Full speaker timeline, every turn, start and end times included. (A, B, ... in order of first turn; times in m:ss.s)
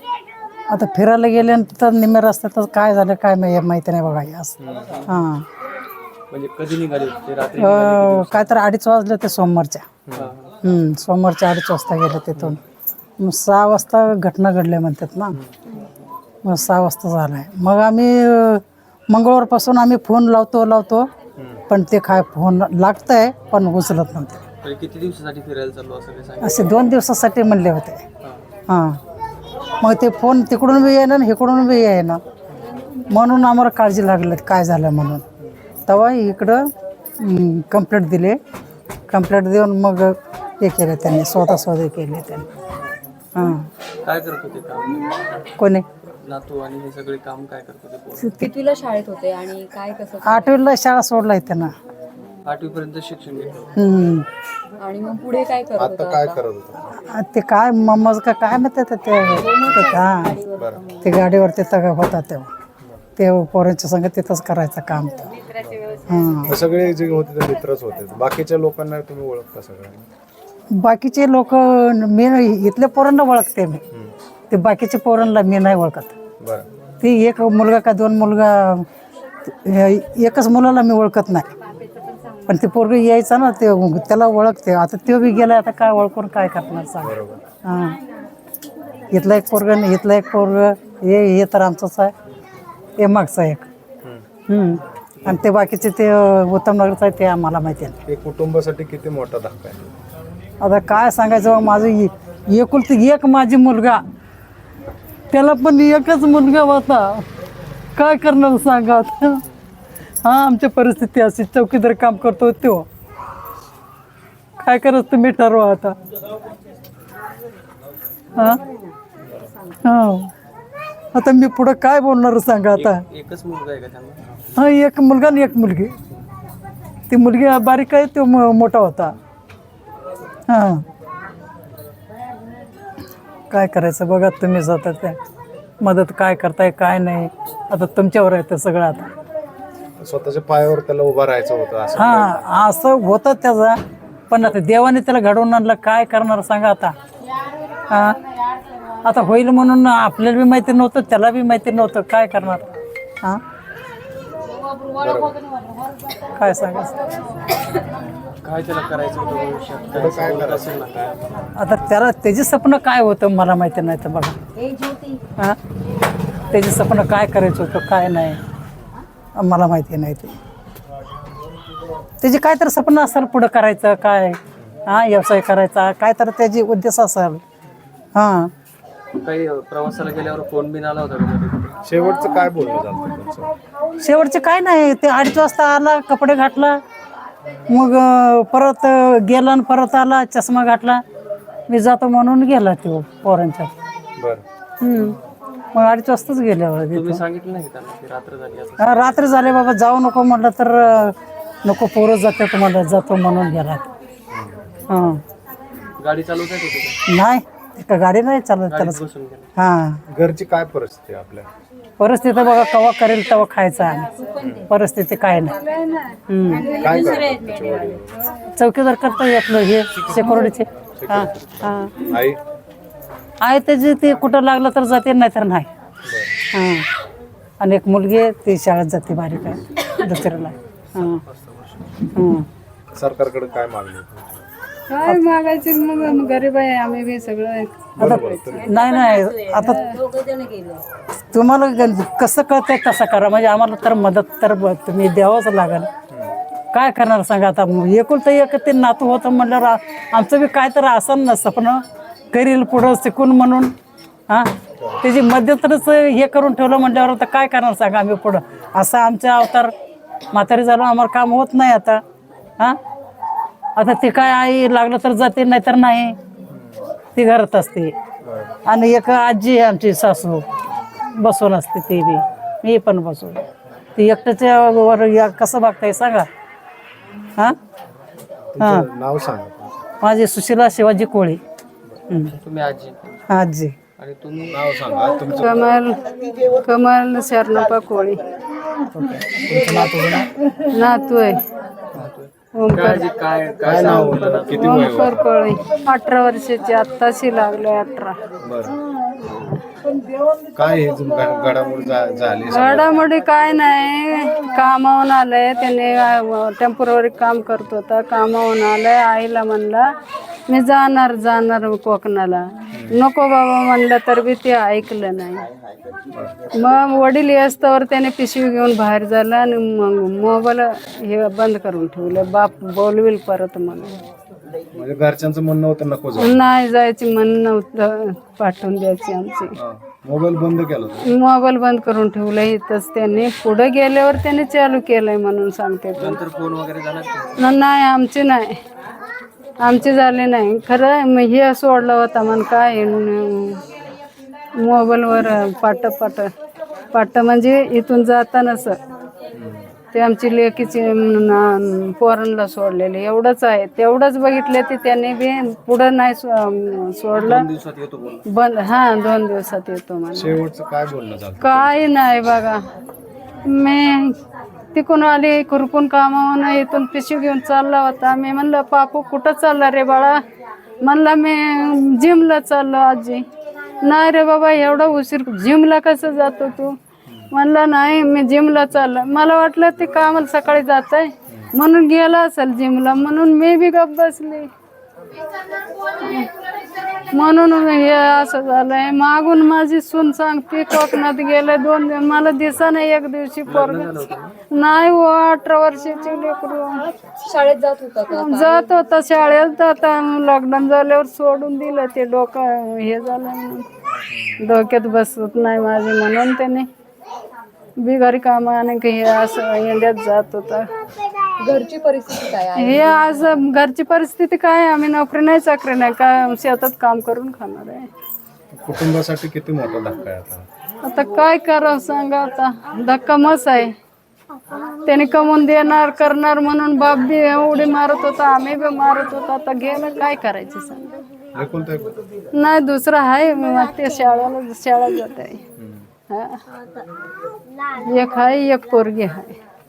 0:00.7-0:04.6 A
0:04.6-0:04.9 B
0:04.9-0:05.2 C
0:05.1-0:05.5 A
0:06.3-0:08.5 C
0:07.6-0:09.9 A
0:10.1-0:10.3 B
0:10.1-0:10.5 C
0:10.6-0:12.6 A
0:13.2-0:15.4 A
0:16.4-0:21.1 A
0:21.7-0:24.4 A
0:24.6-0:26.8 C
0:26.4-0:28.0 A
0:28.2-0:28.5 C
0:28.7-0:29.0 A
0:29.8-0:32.2 A
0:33.1-0:35.2 A
0:35.9-0:36.6 A
0:37.2-0:38.4 A
0:39.1-0:42.5 A
0:43.4-0:43.7 A
0:44.0-0:45.2 C
0:45.6-0:45.8 A
0:46.1-0:48.4 C
0:48.2-0:50.6 D
0:50.2-0:51.7 A
0:52.4-0:53.7 C
0:53.8-0:54.3 A
0:54.8-0:56.4 D
0:55.8-0:56.9 B
0:57.0-1:00.4 A
0:59.4-1:01.1 D
1:01.0-1:02.5 A
1:03.2-1:05.4 A
1:06.1-1:06.6 A
1:06.5-1:10.0 B
1:10.7-1:13.8 A
1:14.5-1:16.1 A
1:16.4-1:16.7 B
1:17.0-1:18.9 A
1:19.4-1:21.5 A
1:22.5-1:28.0 A
1:27.0-1:27.4 B
1:29.1-1:32.1 A
1:33.0-1:33.7 A
1:34.5-1:38.0 A
1:38.1-1:39.9 B
1:40.6-1:44.0 A
1:45.3-1:47.2 A
1:48.0-1:49.4 A
1:50.2-1:52.9 A
1:54.6-1:56.0 A
1:58.4-1:58.6 A
1:59.8-2:00.3 A
2:01.1-2:03.0 A
2:02.7-2:04.2 C
2:04.6-2:06.0 A
2:07.1-2:09.2 A
2:10.5-2:10.8 A
2:13.5-2:15.2 A
2:15.8-2:19.1 A
2:20.0-2:22.4 B
2:22.0-2:27.0 A
2:27.9-2:28.2 A
2:29.0-2:32.7 A
2:34.9-2:35.4 B
2:36.2-2:37.1 A
2:38.4-2:41.3 C
2:39.9-2:41.1 B
2:41.6-2:44.4 A
2:46.5-2:48.4 A
2:49.4-2:50.4 A
2:52.2-2:57.4 A
2:58.2-2:58.5 A
2:59.2-3:01.8 C
3:01.8-3:03.5 B
3:04.0-3:06.8 A
3:07.7-3:11.0 A
3:11.7-3:13.7 A
3:14.2-3:14.4 B
3:14.9-3:15.1 E
3:15.7-3:17.2 A
3:16.9-3:19.2 C
3:18.8-3:23.9 A
3:24.3-3:24.8 B
3:24.9-3:25.2 A
3:26.0-3:27.0 C
3:27.1-3:29.0 A
3:28.7-3:29.5 C
3:29.6-3:30.0 A
3:30.1-3:31.5 B
3:32.0-3:35.6 A
3:34.4-3:34.7 B
3:35.5-3:37.3 E
3:36.3-3:36.7 A
3:36.8-3:38.2 B
3:38.6-3:42.1 A
3:41.0-3:42.4 B
3:43.4-3:45.7 A
3:46.0-3:46.4 B
3:46.5-3:46.9 A
3:47.6-3:51.2 A
3:50.5-3:51.9 C
3:52.1-3:52.5 A
3:53.0-3:54.4 B
3:54.9-3:58.7 E
3:58.0-3:58.7 B
3:58.0-3:59.8 A
3:58.7-4:00.8 D
3:59.6-4:00.0 E
4:01.3-4:05.9 A
4:06.7-4:13.7 A
4:14.3-4:19.7 A
4:20.3-4:22.0 A
4:23.8-4:26.2 A
4:26.5-4:26.8 B
4:27.2-4:28.0 A
4:28.2-4:28.5 B
4:28.6-4:30.4 A
4:31.2-4:33.4 A
4:34.0-4:36.3 A
4:38.5-4:39.8 B
4:38.6-4:38.9 A
4:40.0-4:41.4 A
4:42.1-4:42.4 A
4:42.4-4:43.2 C
4:43.3-4:43.8 A
4:44.0-4:44.6 C
4:44.5-4:45.7 B
4:45.4-4:48.2 E
4:49.0-4:50.3 B
4:50.7-4:51.4 E
4:51.9-4:54.8 C
4:52.6-4:53.0 E
4:53.6-4:55.3 B
4:53.8-4:58.2 E
4:58.4-4:58.8 B
4:59.2-4:59.5 E
5:00.6-5:03.0 B
5:02.5-5:09.9 E
5:10.5-5:15.5 E
5:16.5-5:24.0 E
5:24.7-5:26.5 B
5:26.2-5:29.6 E
5:29.6-5:31.1 B
5:31.0-5:36.2 E
5:36.0-5:37.4 C
5:37.4-5:38.6 E
5:39.6-5:43.6 E
5:44.6-5:46.3 E
5:46.9-5:48.8 E
5:49.4-5:49.8 B
5:49.9-5:57.5 E
5:57.1-5:58.2 C
5:58.3-6:00.4 E
6:00.1-6:01.8 B
6:01.4-6:02.6 E
6:03.4-6:04.2 E
6:04.8-6:10.2 E
6:10.8-6:13.2 E
6:13.8-6:16.8 E
6:17.3-6:24.5 E
6:26.0-6:26.3 E
6:27.1-6:33.9 E
6:33.5-6:34.4 C
6:34.5-6:36.9 E
6:37.2-6:38.8 D
6:38.1-6:43.7 E
6:44.4-6:46.7 E
6:47.8-6:50.7 E
6:51.4-6:53.4 D
6:52.6-6:57.9 E
6:58.5-7:00.5 B
7:00.8-7:03.7 E
7:04.8-7:10.9 E
7:11.3-7:12.2 B
7:12.4-7:15.4 E
7:15.6-7:15.9 B
7:16.1-7:16.4 E
7:17.8-7:19.4 E